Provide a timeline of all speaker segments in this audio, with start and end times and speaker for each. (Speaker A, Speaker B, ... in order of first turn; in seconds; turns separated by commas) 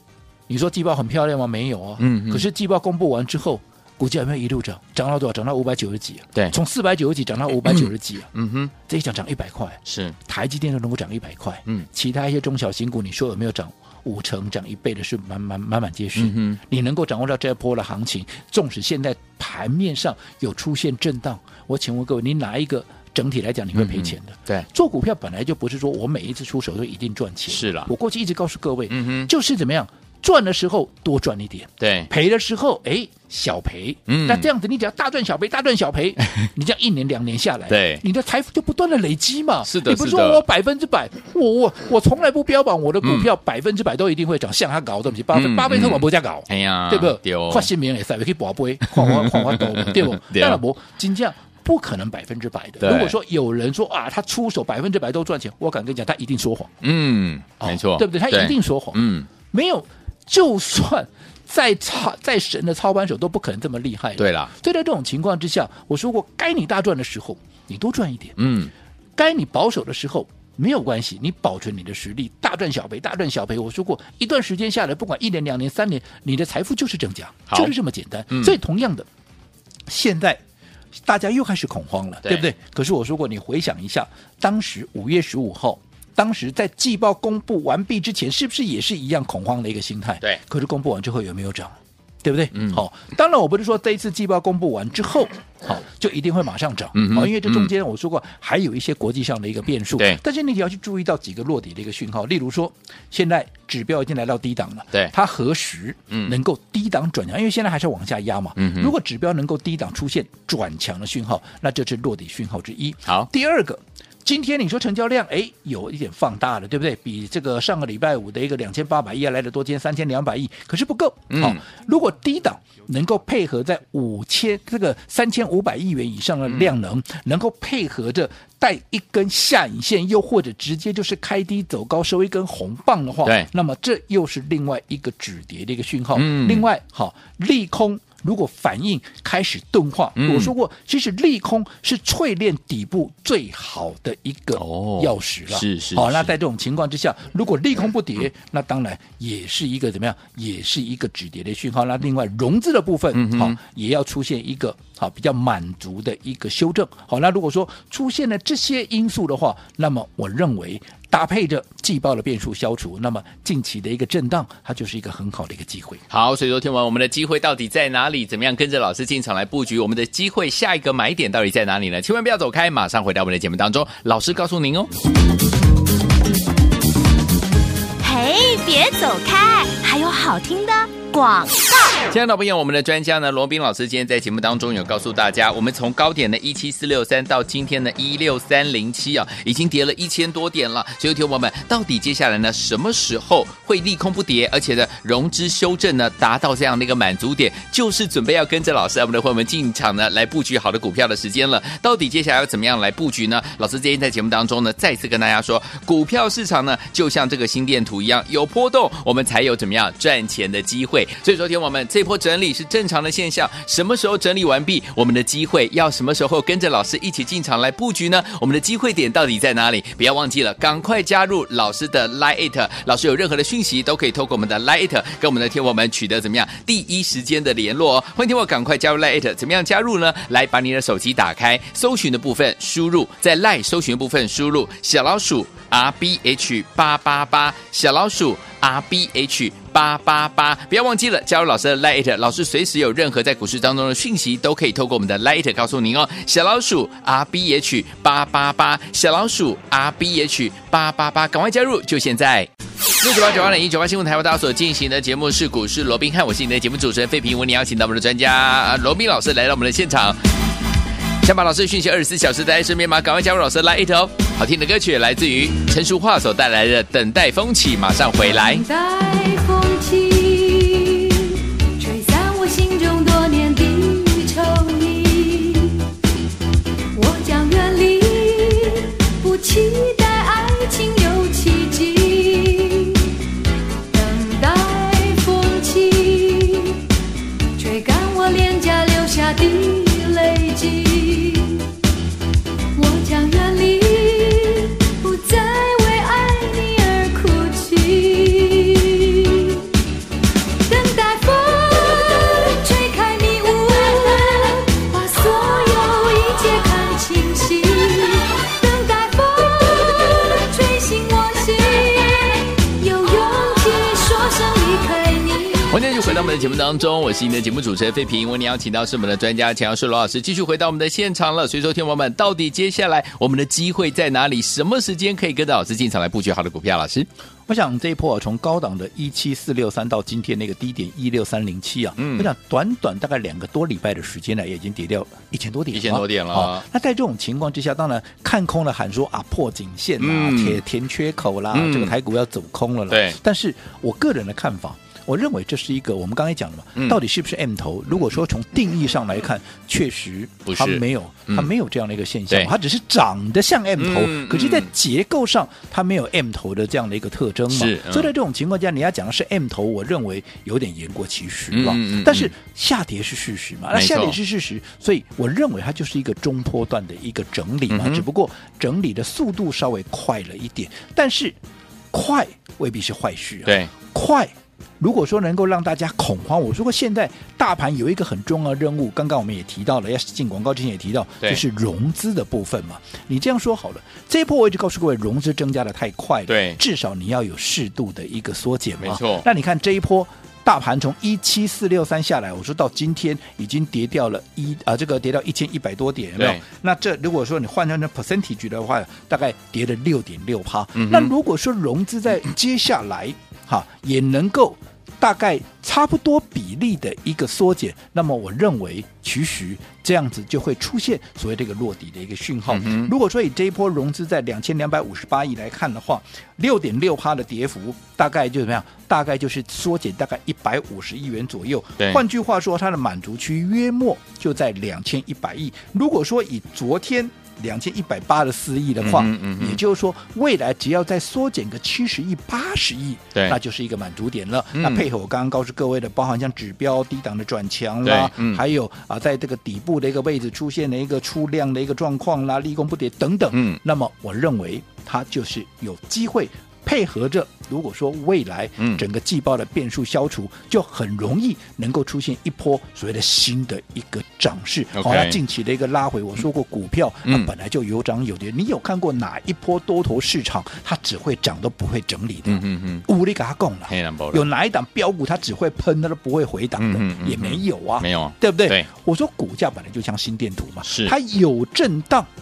Speaker A: 0.5-8.3, Speaker B: 2.0-2.4, Speaker B: 7.6-8.7, Speaker A: 8.8-56.7, Speaker B: 9.8-10.2, Speaker B: 16.1-16.6, Speaker B: 23.7-24.7, Speaker B: 27.5-27.9, Speaker B: 28.9-29.3, Speaker B: 31.8-32.1, Speaker B: 34.1-34.5, Speaker B: 37.7-38.0, Speaker B: 39.6-40.4, Speaker B: 43.0-43.3, Speaker B: 45.3-47.7, Speaker B: 48.9-50.6, Speaker B: 52.8-53.1, Speaker B: 56.8-59.3, Speaker A: 57.6-68.4, Speaker B: 64.2-64.5, Speaker B: 68.4-68.7, Speaker A: 69.2-79.1, Speaker B: 77.5-77.7, Speaker B: 78.3-78.6, Speaker A: 79.9-80.4, Speaker A: 81.0-166.0, Speaker B: 82.2-82.5, Speaker B: 92.5-92.8, Speaker B: 96.9-97.7, Speaker B: 108.6-108.9, Speaker B: 121.3-121.6, Speaker B: 136.1-136.6, Speaker B: 140.2-140.5, Speaker B: 144.6-146.3, Speaker B: 153.1-153.6, Speaker B: 166.1-174.9, Speaker C: 178.0-182.0, Speaker B: 182.1-260.2, Speaker B: 261.2-268.6, Speaker D: 268.3-275.8, Speaker D: 276.9-283.1, Speaker D: 283.9-286.8, Speaker D: 287.6-291.7, Speaker D: 292.7-299.7, Speaker D: 300.6-315.8, Speaker B: 315.7-327.1, Speaker A: 327.5-371.4, Speaker B: 332.0-332.3, Speaker B: 335.7-336.6, Speaker B: 340.0-340.6, Speaker B: 341.5-341.9, Speaker B: 342.9-343.2, Speaker B: 350.4-351.5, Speaker B: 353.8-354.7, Speaker B: 357.5-358.1, Speaker B: 361.5-362.3, Speaker B: 363.7-364.2, Speaker B: 367.7-368.0, Speaker A: 371.9-472.1, Speaker B: 373.4-373.7, Speaker B: 386.3-386.6, Speaker B: 388.8-389.2, Speaker B: 396.2-396.4, Speaker B: 400.7-401.1, Speaker B: 412.5-412.9, Speaker B: 428.8-429.6, Speaker B: 434.5-434.9, Speaker B: 437.8-438.4, Speaker B: 443.3-443.6, Speaker B: 454.7-455.2, Speaker B: 457.0-457.3, Speaker B: 462.2-462.9, Speaker B: 463.7-464.2, Speaker B: 466.6-468.7, Speaker B: 470.6-470.9